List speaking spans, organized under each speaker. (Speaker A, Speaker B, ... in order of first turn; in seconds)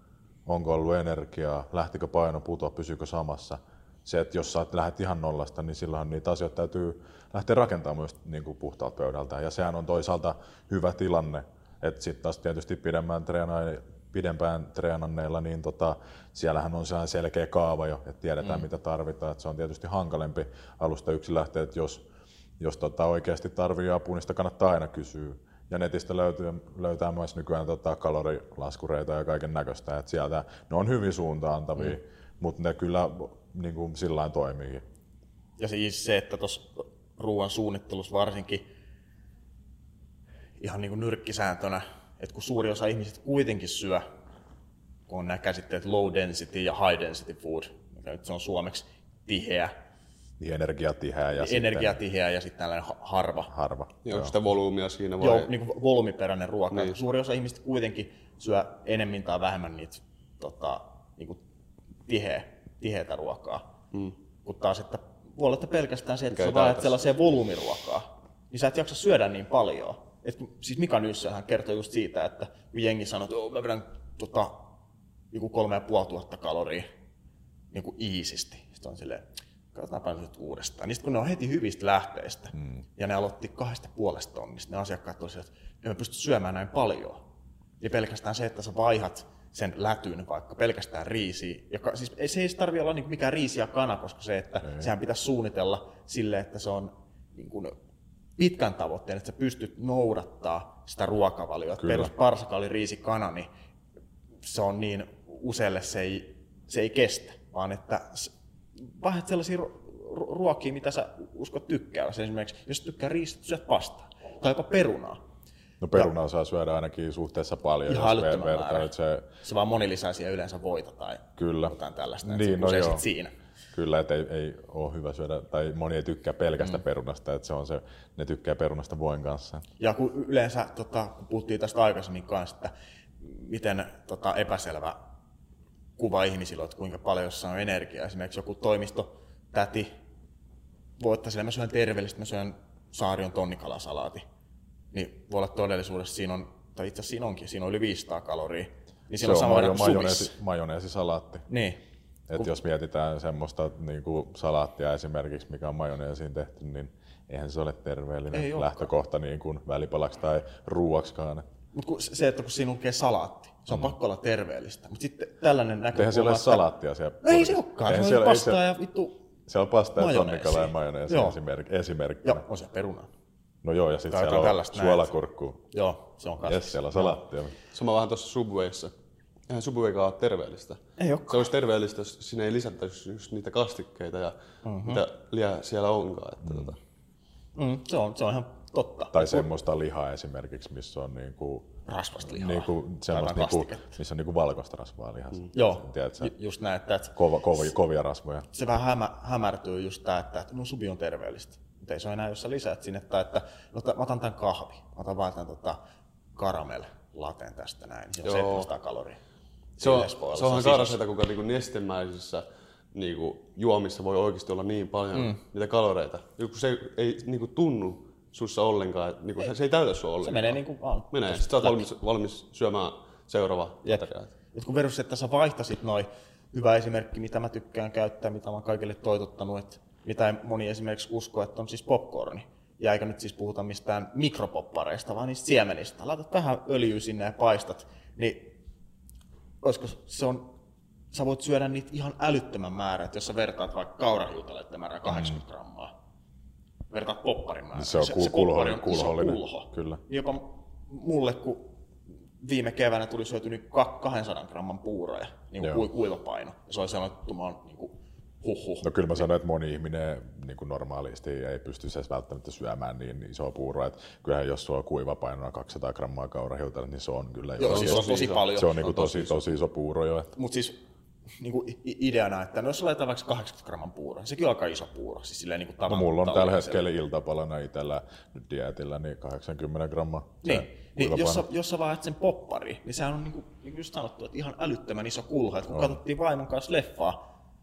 Speaker A: 0.5-22.0, 22.6-34.8, 50.4-52.0, 53.5-54.4, 82.5-82.8, 94.6-94.9, 101.8-102.1, 115.8-119.3, 121.4-123.0, 123.7-129.7, 149.2-151.5, 152.3-161.4, 165.9-168.6, 169.5-172.4, 173.6-175.6, 176.4-177.6, 186.4-186.8, 189.1-191.7, 192.2-196.3, 197.2-198.5, 245.1-245.4, 247.8-250.0, 258.8-270.4, 275.9-281.5, 285.7-286.0
Speaker B: 35.6-38.6, 40.6-44.0, 45.1-49.7, 51.4-53.5, 55.2-61.4, 62.1-63.6, 64.4-74.7, 75.3-76.8, 77.7-87.2, 87.8-97.8, 98.4-103.5, 104.4-115.2, 117.9-118.9, 119.4-123.3, 129.8-135.0, 136.0-139.9, 141.0-144.2, 144.9-150.3, 151.5-151.8, 158.3-158.9, 161.7-166.7, 167.2-169.2, 170.0-171.4, 172.2-173.1, 174.1-175.1, 175.7-177.2, 181.0-181.5, 184.7-185.0, 187.6-189.5, 191.9-193.9, 195.5-197.2, 198.5-205.8, 206.4-209.2, 209.8-211.0, 215.1-215.4, 220.2-221.9, 223.8-238.5, 239.6-240.5, 241.1-245.9, 246.9-251.8, 252.4-258.9, 267.6-269.4, 270.4-270.8, 271.4-276.8, 280.4-287.2
Speaker C: 54.0-55.5, 66.3-67.0, 177.7-178.9, 179.5-186.8, 208.2-208.7, 209.8-220.6, 221.1-224.3, 267.6-268.5